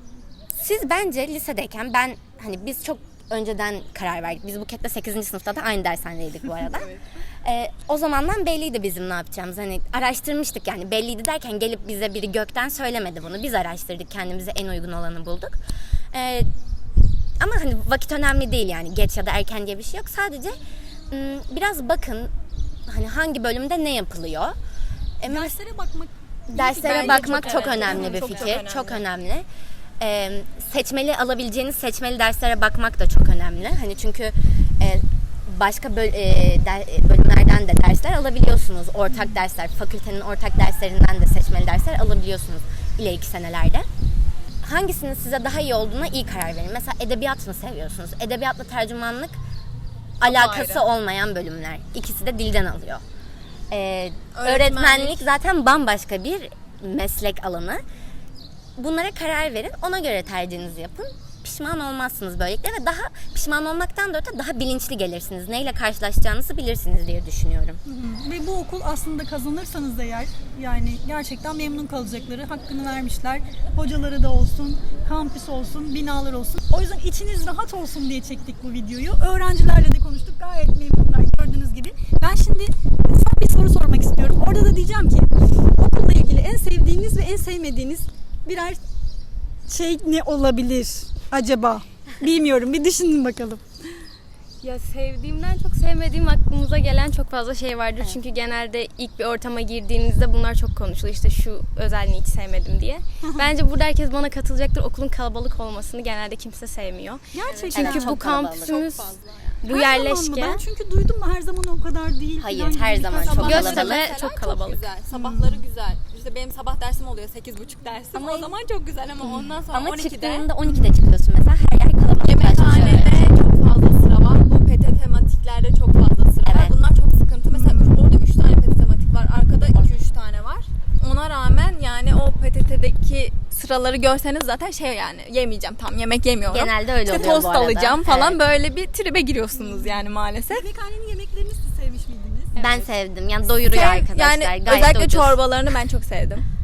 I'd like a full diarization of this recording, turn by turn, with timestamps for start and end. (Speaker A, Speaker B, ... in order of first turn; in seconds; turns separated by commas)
Speaker A: 0.5-6.9, Speaker B: 6.7-7.0, Speaker A: 7.4-15.6, Speaker A: 16.1-16.5, Speaker A: 17.4-20.6, Speaker A: 21.1-22.3, Speaker A: 22.9-24.6, Speaker A: 25.2-25.6, Speaker C: 25.2-28.3, Speaker A: 26.5-29.5, Speaker B: 26.8-29.0, Speaker D: 27.3-28.5, Speaker A: 30.0-43.9, Speaker A: 44.6-49.4, Speaker A: 50.2-53.0, Speaker B: 50.2-50.8, Speaker A: 53.7-57.8, Speaker B: 54.4-55.3, Speaker A: 58.8-67.8, Speaker C: 67.9-88.8, Speaker C: 89.7-93.6, Speaker D: 94.6-110.6, Speaker C: 107.3-108.2, Speaker A: 107.7-108.8, Speaker B: 108.6-109.6, Speaker C: 109.7-113.9, Speaker A: 112.4-114.0, Speaker B: 113.3-120.5, Speaker D: 113.3-114.9, Speaker C: 115.1-115.6, Speaker A: 118.1-118.5, Speaker A: 119.2-123.3, Speaker C: 120.7-120.9, Speaker B: 122.2-140.7, Speaker A: 126.5-126.8, Speaker C: 127.5-128.0, Speaker A: 136.4-138.4, Speaker C: 139.5-142.6, Speaker D: 142.6-142.9, Speaker A: 142.6-145.4, Speaker B: 143.6-146.4